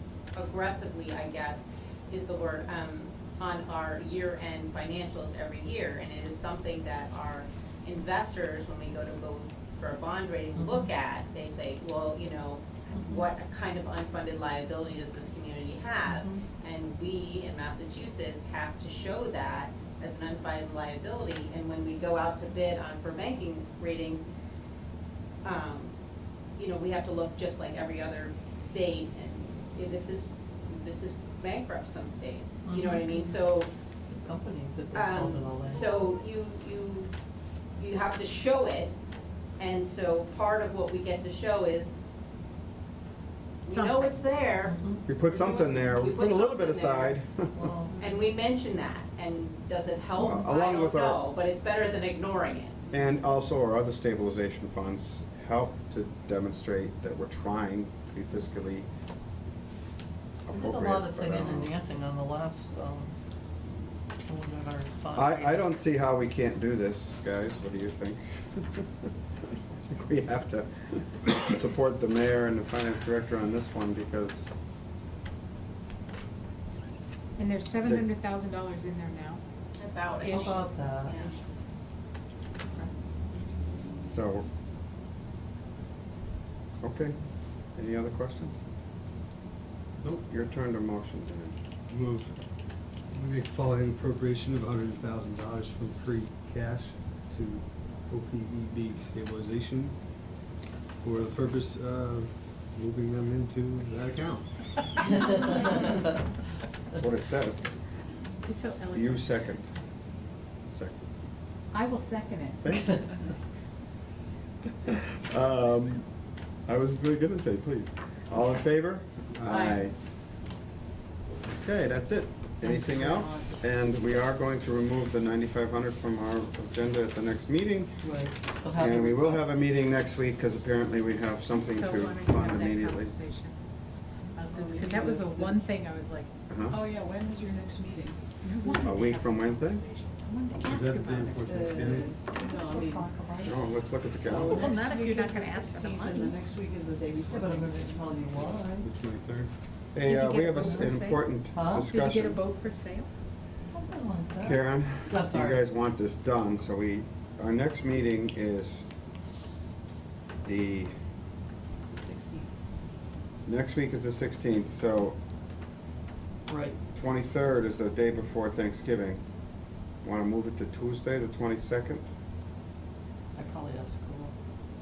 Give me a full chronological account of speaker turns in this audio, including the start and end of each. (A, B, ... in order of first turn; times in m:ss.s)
0:00.3-0:24.2 A
0:10.5-0:10.9 B
0:13.0-0:13.3 B
0:16.0-0:16.4 B
0:25.4-0:25.9 A
0:26.6-0:33.7 A
0:32.6-0:33.4 B
0:34.0-0:35.9 B
0:34.9-0:37.1 A
0:37.8-0:38.9 A
0:39.6-0:42.0 A
0:43.6-0:47.2 A
0:43.7-0:44.2 C
0:44.6-0:45.0 B
0:45.1-0:47.7 D
0:47.5-0:48.0 B
0:48.0-0:52.8 A
0:50.2-0:51.2 D
0:52.9-0:58.9 D
1:00.4-1:01.7 D
1:00.5-1:03.1 B
1:04.2-1:05.7 B
1:05.1-1:08.8 D
1:09.8-1:14.5 D
1:17.4-1:19.4 C
1:19.8-1:21.3 A
1:20.2-1:21.3 B
1:24.0-1:24.4 D
1:26.8-1:27.2 D
1:27.8-1:28.5 D
1:30.0-1:31.6 D
1:31.9-1:32.3 E
1:33.1-1:39.9 E
1:41.0-1:44.6 E
1:46.9-1:47.7 D
1:48.5-1:49.2 C
1:48.7-1:49.6 D
1:50.7-1:51.0 D
1:51.7-1:52.6 C
1:52.6-1:53.1 D
1:54.8-1:56.0 D
1:56.7-1:59.9 D
1:59.5-1:59.8 B
2:01.5-2:07.9 D
2:02.6-2:03.6 B
2:08.0-2:09.5 B
2:08.8-2:13.1 D
2:11.5-2:13.5 C
2:14.4-2:16.3 C
2:14.5-2:15.6 F
2:16.5-2:16.8 D
2:16.7-2:18.4 F
2:18.4-2:21.6 C
2:18.8-2:19.8 D
2:20.6-2:22.1 E
2:21.4-2:23.1 F
2:21.9-2:23.6 B
2:23.4-2:24.7 D
2:24.1-2:24.7 B
2:24.2-2:28.2 F
2:24.5-2:26.4 C
2:27.3-2:28.9 B
2:28.8-2:29.5 E
2:29.9-2:32.4 D
2:30.0-2:31.2 C
2:30.1-2:31.9 B
2:31.7-2:33.1 C
2:33.6-2:35.6 B
2:34.4-2:38.9 D
2:40.4-2:40.9 D
2:42.0-2:42.4 F
2:43.4-2:45.2 D
2:46.5-2:46.8 B
2:46.9-2:49.2 D
2:50.0-2:52.0 D
2:53.4-2:54.3 B